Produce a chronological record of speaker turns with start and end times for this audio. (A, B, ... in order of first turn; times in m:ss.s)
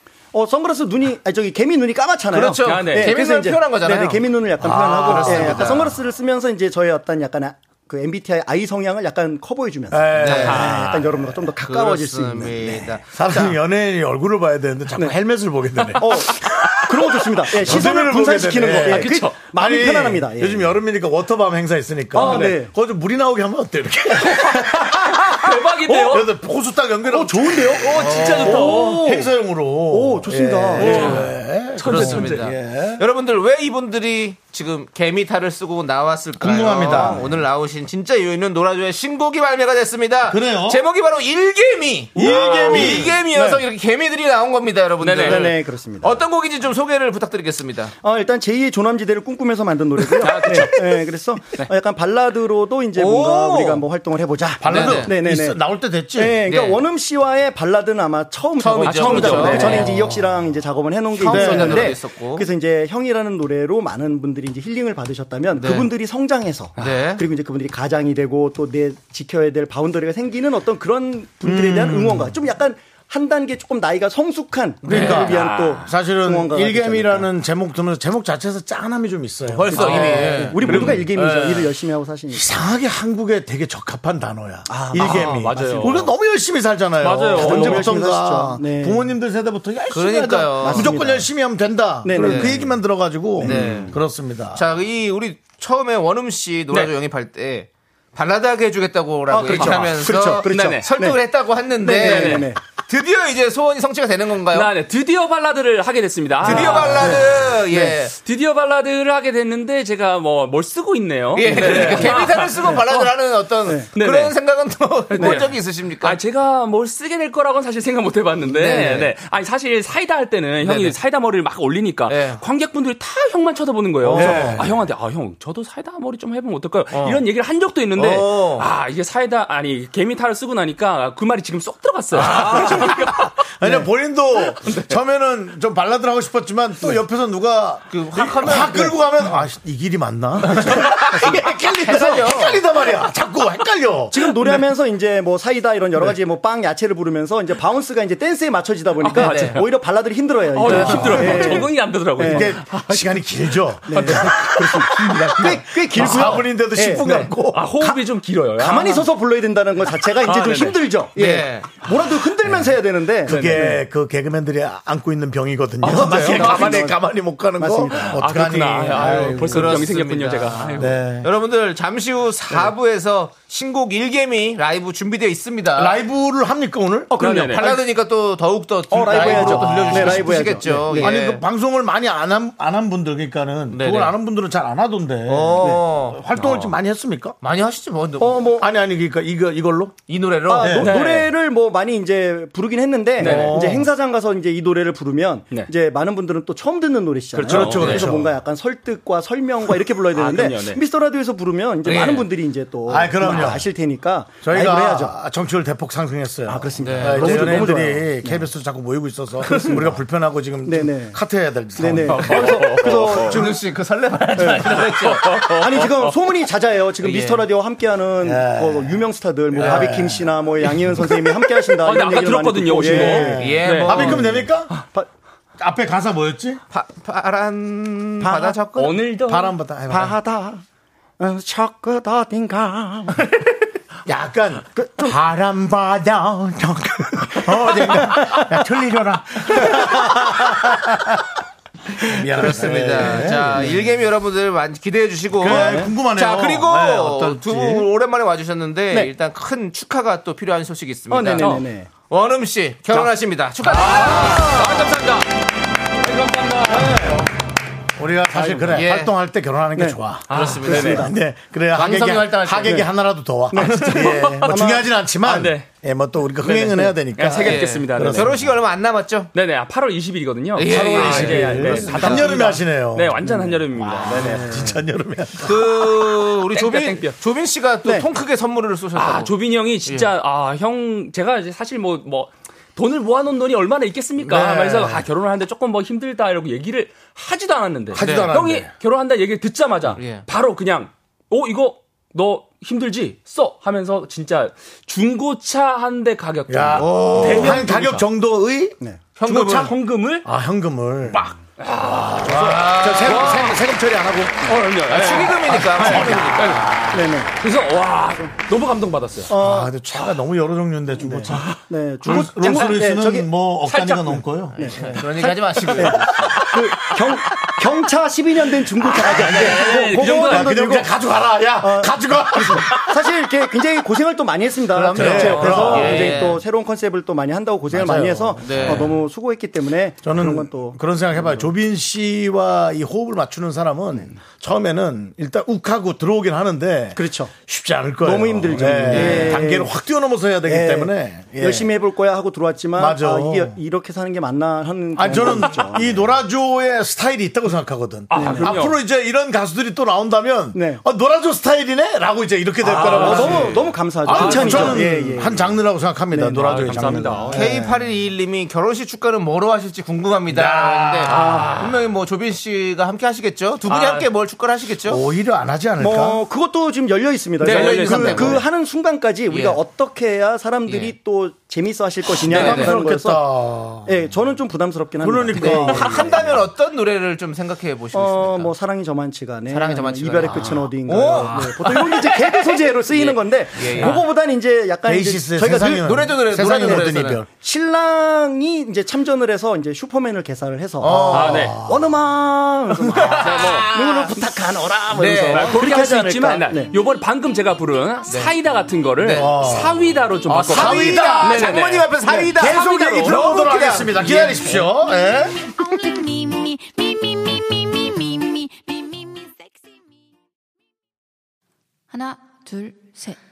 0:00.3-0:12.9 A
0:02.3-0:05.9 B
0:02.6-0:03.2 C
0:04.6-0:05.9 D
0:09.9-0:11.0 D
0:10.2-0:10.8 B
0:10.5-0:11.0 C
0:11.6-0:13.5 B
0:13.0-0:33.0 D
0:16.0-0:20.7 A
0:18.6-0:19.4 C
0:22.1-0:22.7 A
0:22.1-0:22.5 C
0:24.7-0:26.3 C
0:27.0-0:29.3 A
0:27.9-0:29.1 C
0:27.9-0:28.6 B
0:29.9-0:31.2 A
0:30.8-0:31.3 B
0:30.8-0:32.4 C
0:31.8-0:47.9 B
0:36.4-0:37.4 D
0:36.8-0:37.1 A
0:40.3-0:40.8 D
0:42.1-0:43.2 D
0:42.8-0:43.6 A
0:45.0-0:45.6 C
0:45.2-0:46.2 A
0:48.0-0:55.6 A
0:50.0-0:51.0 C
0:52.9-0:53.8 B
0:54.6-0:56.4 D
0:54.6-0:55.1 B
0:56.1-1:17.3 A
0:56.4-0:56.8 B
0:58.6-0:59.9 B
0:58.8-0:59.9 C
0:59.5-1:00.4 D
1:01.2-1:02.5 B
1:01.2-1:02.0 D
1:05.6-1:05.9 B
1:06.8-1:07.2 B
1:11.4-1:12.4 D
1:14.8-1:15.3 B
1:14.8-1:21.6 D
1:14.9-1:15.8 C
1:19.5-1:21.3 B
1:19.7-1:22.6 A
1:19.8-1:21.0 C
1:22.3-1:34.6 D
1:24.7-1:26.1 A
1:24.9-1:26.0 C
1:27.0-1:27.9 C
1:27.3-1:29.1 A
1:29.9-1:31.0 B
1:30.6-1:31.3 A
1:32.0-1:32.8 A
1:32.1-1:32.6 B
1:33.4-1:33.8 A
1:33.4-1:34.0 B
1:34.5-1:44.7 B
1:39.3-1:41.2 A
1:40.5-1:40.9 C
1:41.8-1:42.6 A
1:42.0-1:42.5 C
1:44.5-1:47.3 C
1:46.4-1:48.1 B
1:46.5-1:47.2 A
1:48.1-1:53.1 C
1:51.3-1:56.2 B
1:51.9-1:52.8 A
1:53.9-1:54.4 C
1:55.1-2:13.3 C
1:55.2-1:55.4 A
1:58.5-1:59.1 B
2:00.6-2:01.0 B
2:02.1-2:02.4 B
2:04.0-2:04.8 D
2:04.1-2:04.5 B
2:06.9-2:07.2 B
2:08.0-2:08.6 B
2:12.1-2:24.6 D
2:17.9-2:19.0 B
2:20.4-2:22.6 B
2:24.1-2:32.5 A
2:29.0-2:29.7 C
2:29.1-2:29.6 B
2:30.5-2:33.2 C
2:30.7-2:31.2 B
2:30.7-2:31.6 D
2:32.2-2:37.7 D
2:33.9-2:38.0 A
2:33.9-2:34.6 C
2:37.4-2:39.1 C
2:38.6-2:43.8 A
2:40.2-2:40.8 C
2:41.2-2:41.7 B
2:43.2-2:49.8 D
2:43.3-2:43.8 C
2:45.8-2:46.9 C
2:45.9-2:47.0 A
2:47.5-2:48.1 A
2:47.9-2:51.0 C
2:49.3-2:56.0 B
2:50.7-2:51.3 D
2:55.8-2:57.2 D
2:57.1-2:57.8 A
2:57.1-2:57.8 C
2:57.4-3:01.4 B
2:58.9-3:01.2 A
2:59.0-3:07.4 D
3:03.7-3:04.1 B
3:05.3-3:06.2 B
3:07.4-3:08.5 B
3:08.2-3:08.7 A
3:08.6-3:10.0 D
3:10.1-3:10.9 B
3:10.5-3:25.2 A
3:10.6-3:11.0 D
3:10.8-3:11.3 C
3:13.2-3:13.8 C
3:13.2-3:13.9 D
3:17.4-3:18.3 D
3:17.4-3:18.1 C
3:20.1-3:20.8 C
3:21.8-3:22.3 B
3:22.9-3:23.7 D
3:24.4-3:33.5 D
3:26.5-3:28.5 A
3:26.8-3:27.8 B
3:30.6-3:31.2 A
3:31.8-3:33.4 A
3:32.0-3:33.4 C
3:33.1-3:35.5 B
3:34.4-3:34.7 A
3:34.7-3:36.1 C
3:35.5-3:43.6 A
3:37.0-3:37.4 B
3:38.2-3:39.0 D
3:39.6-3:40.3 D
3:39.6-3:39.8 B
3:40.9-3:44.8 C
3:42.8-3:44.7 D
3:43.4-3:44.3 B
3:45.6-3:46.6 D
3:46.7-3:49.0 B
3:48.2-3:48.6 A
3:48.7-3:49.6 C
3:49.2-3:50.2 D
3:49.9-3:50.6 A
3:51.2-3:53.2 A
3:54.0-4:01.3 D
3:54.7-3:55.2 A
4:02.0-4:03.8 D
4:02.3-4:11.5 B
4:05.4-4:07.9 D
4:05.4-4:05.9 A
4:11.1-4:11.9 A
4:11.4-4:11.6 C
4:12.1-4:14.7 B
4:13.6-4:15.3 C
4:16.0-4:17.1 C
4:16.6-4:17.3 D
4:18.0-4:28.5 D
4:18.7-4:19.1 B
4:19.7-4:20.0 A
4:20.3-4:21.1 C
4:20.3-4:21.0 B
4:20.6-4:21.1 A
4:21.7-4:22.9 B
4:22.6-4:22.9 A
4:23.5-4:24.9 A
4:23.8-4:24.5 C
4:25.2-4:25.7 C
4:26.4-4:26.9 A
4:26.4-4:28.4 C
4:27.3-4:29.3 B
4:29.3-4:34.7 C
4:30.5-4:32.4 B
4:30.6-4:35.8 D
4:33.2-4:33.6 A
4:35.4-4:39.3 B
4:36.5-4:37.2 C
4:38.9-4:58.0 C
4:39.8-4:40.1 B
4:44.2-4:45.0 D
4:47.9-4:48.7 D
4:48.0-4:48.3 B
4:49.9-4:50.2 B
4:56.5-5:01.2 D
4:59.2-4:59.7 B
4:59.7-5:00.2 C
5:01.1-5:03.6 C
5:01.9-5:04.6 D
5:02.3-5:03.5 B
5:04.4-5:09.3 C
5:04.9-5:06.8 B
5:05.4-5:06.7 D
5:06.9-5:07.3 A
5:09.3-5:09.7 A
5:09.3-5:11.5 D
5:11.0-5:13.3 A
5:11.3-5:11.6 C
5:12.0-5:14.7 D
5:13.7-5:14.1 C
5:14.5-5:21.0 A
5:14.6-5:16.1 B
5:15.8-5:16.5 D
5:15.8-5:17.6 C
5:18.8-5:20.6 C
5:19.0-5:23.0 D
5:21.6-5:31.5 A
5:24.8-5:26.2 D
5:24.8-5:26.4 B
5:25.1-5:26.2 C
5:27.7-5:28.9 D
5:28.4-5:28.9 B
5:30.0-5:41.7 D
5:37.0-5:37.3 A
5:38.0-5:39.7 A
5:38.9-5:39.4 B
5:40.4-5:46.0 A
5:42.8-5:43.6 D
5:45.0-5:57.6 D
5:48.1-5:48.8 C
5:48.1-5:48.6 A
5:50.5-5:50.8 A
5:52.6-5:54.9 C
5:52.7-5:57.1 A
5:56.4-5:57.6 C
5:57.3-6:05.0 B
6:00.3-6:01.5 D
6:01.0-6:01.8 C
6:03.7-6:04.1 C
6:04.9-6:06.2 D
6:05.8-6:13.2 A
6:07.4-6:08.4 C
6:07.4-6:08.4 B
6:07.5-6:08.4 D
6:09.3-6:09.6 B
6:10.6-6:10.9 B
6:12.2-6:13.9 D
6:12.3-6:12.7 B
6:12.3-6:12.7 C
6:13.8-6:16.4 A
6:15.0-6:16.4 D
6:15.3-6:18.5 B
6:17.9-6:25.9 A
6:19.5-6:22.1 B
6:21.6-6:21.9 C
6:22.9-6:24.0 B
6:24.8-6:27.3 D
6:25.6-6:27.2 B
6:26.6-6:36.7 A
6:30.8-6:31.9 D
6:30.8-6:31.2 B
6:31.1-6:31.6 C
6:32.8-6:33.2 D
6:33.0-6:34.2 B
6:33.2-6:33.7 C
6:34.9-6:35.6 B
6:35.1-6:44.4 C
6:38.1-6:38.4 B
6:39.0-6:39.4 B
6:39.1-6:39.8 D
6:40.3-6:44.6 B
6:40.5-6:41.5 D
6:42.0-6:42.3 A
6:42.4-6:45.4 D
6:45.8-6:49.2 E